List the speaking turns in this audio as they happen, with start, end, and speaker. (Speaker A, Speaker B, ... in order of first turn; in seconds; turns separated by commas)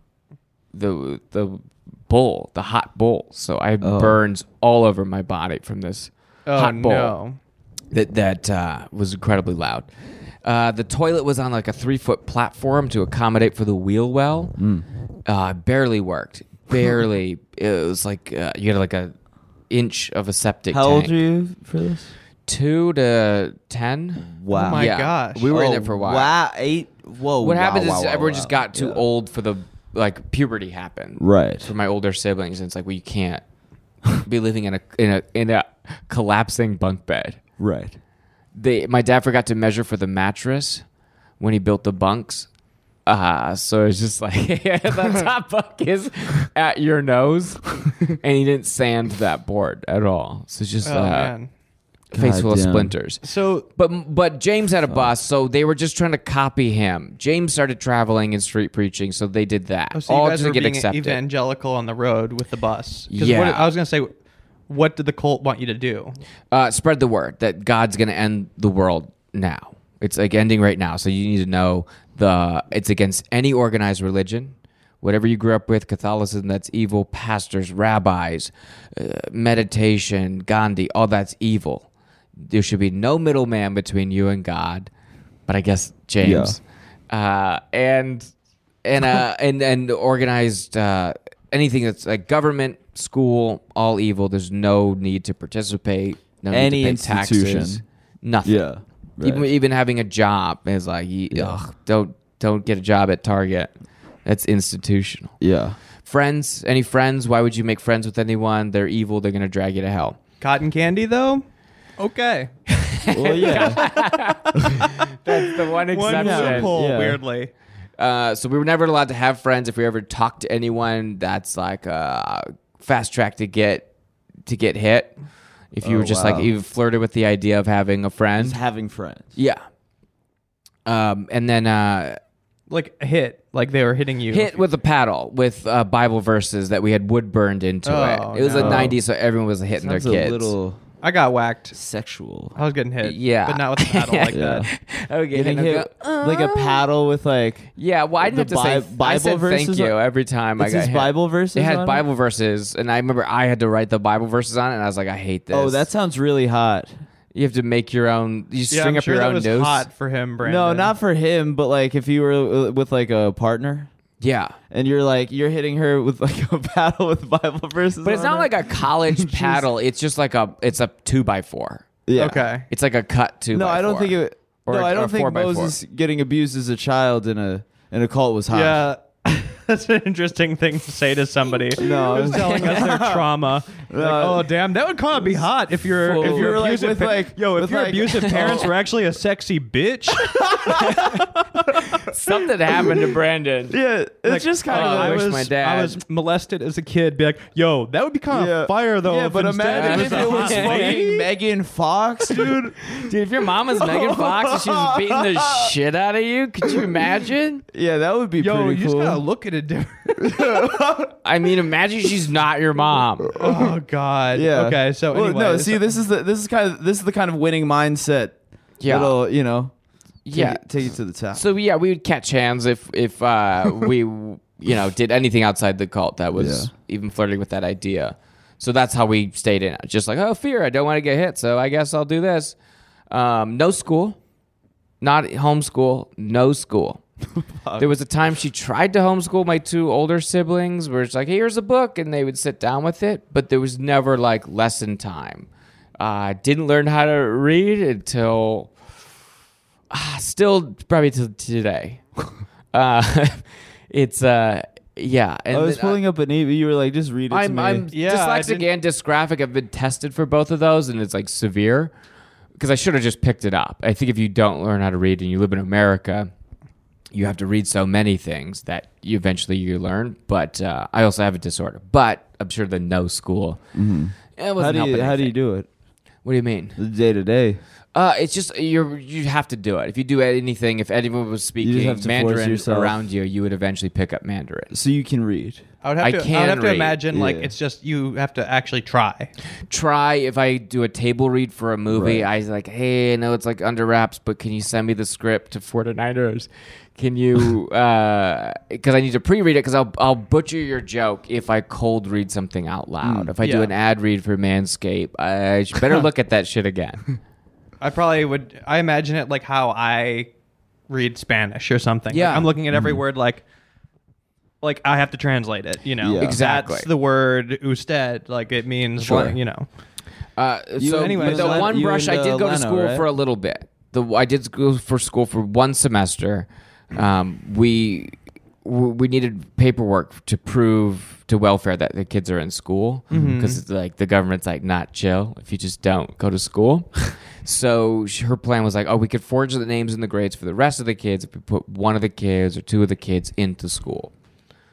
Speaker A: 0.7-7.2, Speaker B: 3.8-4.2, Speaker C: 6.5-7.4, Speaker A: 7.9-9.9, Speaker A: 10.4-14.5, Speaker B: 14.6-14.8, Speaker A: 15.3-19.1, Speaker A: 19.7-21.1, Speaker B: 20.7-22.1, Speaker A: 22.5-26.3, Speaker B: 24.3-24.9, Speaker C: 24.5-25.5, Speaker B: 25.5-29.0, Speaker A: 27.4-33.4, Speaker B: 31.2-31.7, Speaker A: 34.1-37.4, Speaker B: 37.6-38.0, Speaker A: 38.5-40.8, Speaker A: 41.4-42.5, Speaker A: 43.0-51.3, Speaker C: 50.8-51.5, Speaker A: 52.1-53.2, Speaker B: 52.1-53.0, Speaker C: 53.2-53.7, Speaker A: 53.8-61.2, Speaker C: 59.9-64.1, Speaker A: 63.1-63.7, Speaker C: 64.7-66.2, Speaker A: 66.5-81.9, Speaker A: 82.5-84.9, Speaker A: 85.5-88.3, Speaker B: 86.2-86.6, Speaker A: 88.8-98.6, Speaker B: 96.5-97.8, Speaker B: 98.4-99.5, Speaker A: 99.2-103.7, Speaker B: 101.3-101.6, Speaker A: 104.2-105.3, Speaker B: 105.4-105.8, Speaker A: 106.0-110.2, Speaker C: 110.4-111.4, Speaker C: 112.0-112.5, Speaker A: 112.7-116.8, Speaker B: 113.1-113.8, Speaker B: 114.5-114.8, Speaker C: 115.2-117.5, Speaker B: 116.1-117.2, Speaker A: 118.0-123.9, Speaker A: 124.5-125.1, Speaker A: 125.7-128.6, Speaker B: 125.8-126.5, Speaker B: 128.4-129.3, Speaker A: 130.8-132.2, Speaker C: 132.7-134.6, Speaker A: 134.3-140.5, Speaker C: 137.8-138.9, Speaker B: 138.6-139.0, Speaker B: 139.8-140.8, Speaker C: 141.0-141.8, Speaker B: 141.7-142.6, Speaker C: 142.5-144.7, Speaker A: 143.0-146.9, Speaker B: 144.3-144.7, Speaker B: 145.3-149.9, Speaker A: 147.8-155.9, Speaker B: 150.6-152.0, Speaker B: 155.5-156.9, Speaker A: 157.3-159.8, Speaker C: 158.7-160.9, Speaker B: 160.4-163.9, Speaker A: 164.2-164.5, Speaker B: 164.7-169.7, Speaker A: 168.0-172.0, Speaker B: 172.1-172.5, Speaker C: 172.2-172.7, Speaker A: 172.7-175.8, Speaker B: 173.5-178.8, Speaker C: 178.5-191.9, Speaker B: 181.7-183.3, Speaker B: 183.9-184.5, Speaker A: 186.0-186.6, Speaker B: 186.2-188.7, Speaker A: 188.1-188.7, Speaker B: 190.2-191.0, Speaker A: 190.7-191.2, Speaker A: 192.0-193.8, Speaker B: 193.7-195.5, Speaker C: 194.2-201.0, Speaker A: 194.7-196.0, Speaker B: 198.3-202.8, Speaker A: 199.7-201.3, Speaker A: 202.3-207.6, Speaker B: 203.8-205.7, Speaker B: 207.7-209.2, Speaker C: 208.4-210.8, Speaker B: 210.2-211.1, Speaker A: 211.2-213.3, Speaker B: 213.3-213.8, Speaker C: 213.3-215.8, Speaker B: 214.3-219.7, Speaker A: 218.8-219.2, Speaker A: 220.2-232.5, Speaker B: 220.3-221.4, Speaker B: 226.3-226.7, Speaker A: 233.1-234.2, Speaker A: 235.0-237.0, Speaker B: 237.4-237.9, Speaker A: 237.8-248.7, Speaker A: 249.9-252.0, Speaker A: 252.7-256.0, Speaker B: 255.5-257.9, Speaker A: 257.3-261.9, Speaker C: 257.9-258.7, Speaker A: 262.6-266.3, Speaker A: 267.1-273.6, Speaker B: 273.7-275.7, Speaker A: 274.4-275.3, Speaker A: 276.2-276.8, Speaker B: 276.8-277.6, Speaker A: 277.9-284.7, Speaker B: 281.6-283.0, Speaker B: 284.7-285.6, Speaker C: 285.8-289.3, Speaker A: 286.0-287.0, Speaker B: 287.1-287.5, Speaker A: 289.7-307.1, Speaker B: 291.9-292.3, Speaker B: 303.0-303.3, Speaker C: 303.4-303.7, Speaker C: 307.8-310.3, Speaker C: 310.9-313.4, Speaker A: 312.1-312.5, Speaker B: 312.7-313.0, Speaker C: 314.6-319.7, Speaker B: 316.0-316.4, Speaker A: 316.1-316.9, Speaker A: 319.0-319.4, Speaker A: 320.4-328.1, Speaker B: 320.8-323.1, Speaker C: 320.9-321.8, Speaker A: 328.6-344.1, Speaker C: 333.1-333.6